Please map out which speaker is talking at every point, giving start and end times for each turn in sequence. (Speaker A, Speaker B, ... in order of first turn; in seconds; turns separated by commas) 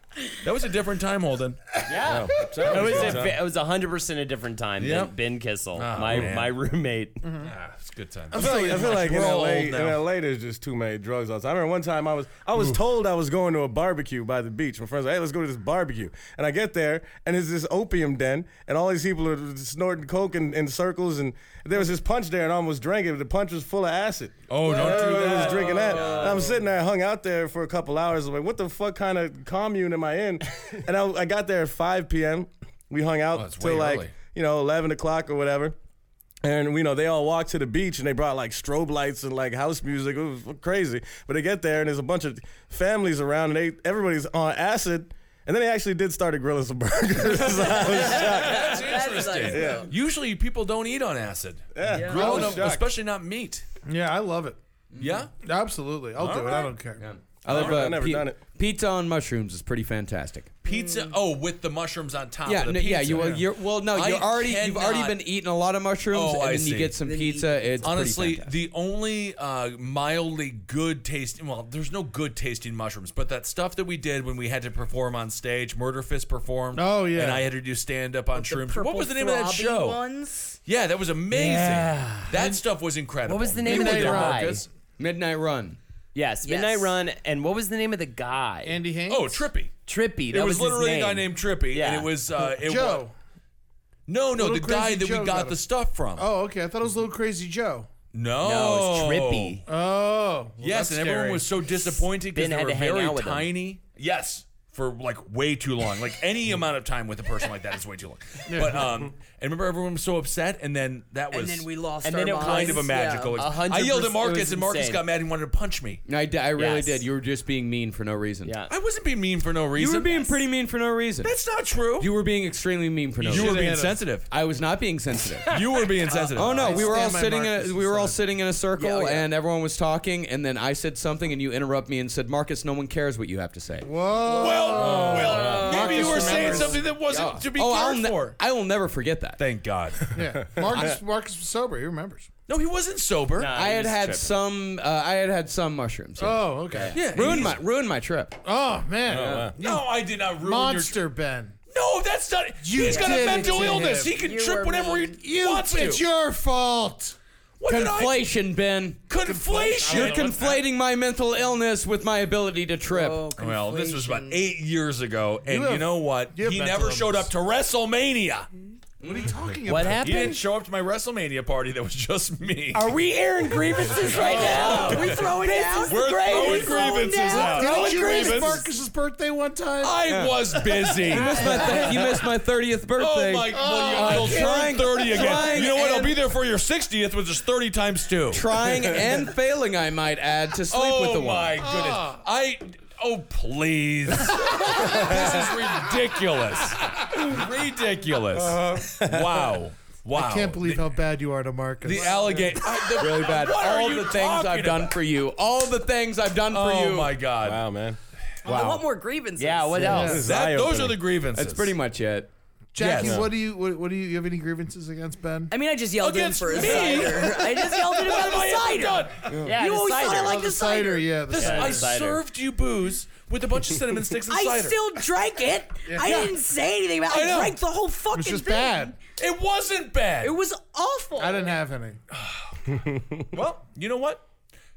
Speaker A: 0.4-1.7, Speaker B: 1.9-7.2, Speaker C: 2.0-3.4, Speaker A: 2.7-3.2, Speaker A: 4.8-5.1, Speaker A: 5.7-6.5, Speaker D: 7.2-7.5, Speaker A: 7.4-10.0, Speaker C: 8.3-35.8, Speaker D: 8.3-8.9, Speaker A: 24.5-26.6, Speaker E: 25.9-26.3, Speaker A: 33.3-34.1, Speaker C: 36.4-48.9, Speaker F: 47.6-49.9, Speaker A: 47.8-53.6, Speaker C: 49.4-49.9, Speaker C: 51.7-52.9, Speaker F: 51.9-52.3, Speaker D: 52.2-52.6, Speaker D: 53.9-54.6, Speaker E: 54.9-55.3, Speaker A: 55.0-55.3, Speaker D: 55.4-57.0, Speaker A: 56.2-56.7, Speaker E: 57.0-60.5, Speaker C: 57.4-58.4, Speaker A: 57.5-57.8, Speaker A: 60.6-65.2, Speaker F: 60.7-61.2, Speaker E: 62.4-68.5, Speaker D: 63.1-63.4, Speaker A: 66.1-67.0, Speaker F: 67.0-68.1, Speaker A: 67.8-80.0, Speaker D: 76.7-77.5, Speaker F: 78.3-80.6, Speaker A: 80.6-84.7, Speaker B: 81.3-82.6, Speaker B: 83.2-84.7, Speaker D: 83.6-84.5, Speaker E: 85.0-85.8, Speaker B: 86.1-88.8, Speaker F: 86.4-86.9, Speaker D: 88.6-89.5, Speaker A: 89.1-89.7, Speaker B: 89.9-92.1, Speaker A: 90.3-93.0, Speaker D: 92.5-93.1, Speaker A: 94.1-96.3, Speaker D: 94.3-95.6, Speaker D: 96.2-97.9, Speaker A: 98.1-99.6, Speaker B: 98.4-99.6, Speaker D: 99.7-101.5, Speaker A: 100.6-111.7, Speaker B: 102.3-103.5, Speaker D: 108.5-108.9, Speaker F: 111.3-113.4, Speaker B: 112.0-115.0, Speaker A: 112.3-116.0, Speaker E: 116.1-118.5, Speaker B: 116.5-117.0, Speaker B: 118.5-118.7, Speaker A: 118.7-120.3, Speaker E: 119.7-121.3, Speaker A: 121.2-122.1, Speaker E: 122.0-125.6, Speaker A: 123.2-124.2, Speaker D: 123.3-124.0, Speaker A: 125.5-126.9, Speaker B: 125.5-125.9, Speaker D: 126.1-128.2, Speaker E: 126.3-133.9, Speaker F: 128.8-129.2, Speaker D: 133.8-136.9, Speaker A: 134.3-138.4, Speaker F: 134.4-136.5, Speaker E: 137.1-139.4, Speaker A: 139.4-140.2, Speaker C: 140.1-141.0, Speaker D: 140.1-142.3, Speaker A: 142.5-143.5, Speaker B: 143.4-144.3, Speaker E: 143.5-148.4, Speaker D: 146.2-147.0, Speaker A: 146.9-147.6, Speaker D: 148.4-151.6, Speaker C: 149.1-149.6, Speaker E: 149.2-149.5, Speaker A: 149.5-151.0, Speaker A: 151.7-156.1, Speaker D: 152.6-154.1, Speaker F: 152.8-155.2, Speaker D: 155.2-157.2, Speaker A: 157.6-158.2, Speaker E: 157.7-159.0, Speaker A: 159.1-160.6, Speaker D: 159.2-160.4, Speaker E: 159.8-163.2, Speaker F: 162.8-164.4, Speaker A: 163.3-168.5, Speaker D: 165.5-167.3, Speaker D: 169.0-170.4, Speaker E: 169.0-169.3, Speaker B: 169.7-170.4, Speaker A: 169.8-172.9, Speaker B: 172.7-178.4, Speaker A: 173.9-178.6, Speaker F: 174.0-178.7, Speaker D: 177.3-180.0, Speaker A: 179.8-182.1, Speaker E: 180.1-180.3, Speaker E: 181.0-186.2, Speaker F: 181.3-181.9, Speaker A: 183.0-188.4, Speaker D: 183.5-184.6, Speaker F: 184.1-185.6, Speaker E: 188.3-191.6, Speaker A: 190.7-200.9, Speaker D: 191.6-192.2, Speaker C: 194.8-195.3, Speaker E: 198.4-198.8, Speaker C: 198.7-199.5, Speaker D: 200.1-202.6, Speaker A: 201.8-205.0, Speaker E: 202.8-207.2, Speaker A: 206.5-207.6, Speaker C: 207.4-208.0, Speaker F: 208.4-210.2, Speaker A: 208.5-208.8, Speaker B: 209.4-210.2, Speaker D: 209.8-210.2, Speaker C: 209.9-211.0, Speaker A: 210.2-211.7, Speaker E: 211.3-212.3, Speaker D: 212.7-215.5, Speaker A: 212.8-213.3, Speaker C: 213.0-213.3, Speaker F: 215.5-221.2, Speaker A: 216.0-219.5, Speaker B: 219.4-220.4, Speaker D: 220.2-221.9, Speaker B: 221.3-222.2, Speaker A: 221.3-224.8, Speaker F: 224.3-228.9, Speaker D: 225.8-226.3, Speaker A: 227.1-227.6, Speaker D: 228.1-229.0, Speaker A: 229.1-230.4, Speaker F: 230.2-231.6, Speaker D: 231.2-232.0, Speaker A: 232.1-232.6, Speaker C: 232.7-233.2, Speaker A: 233.3-234.2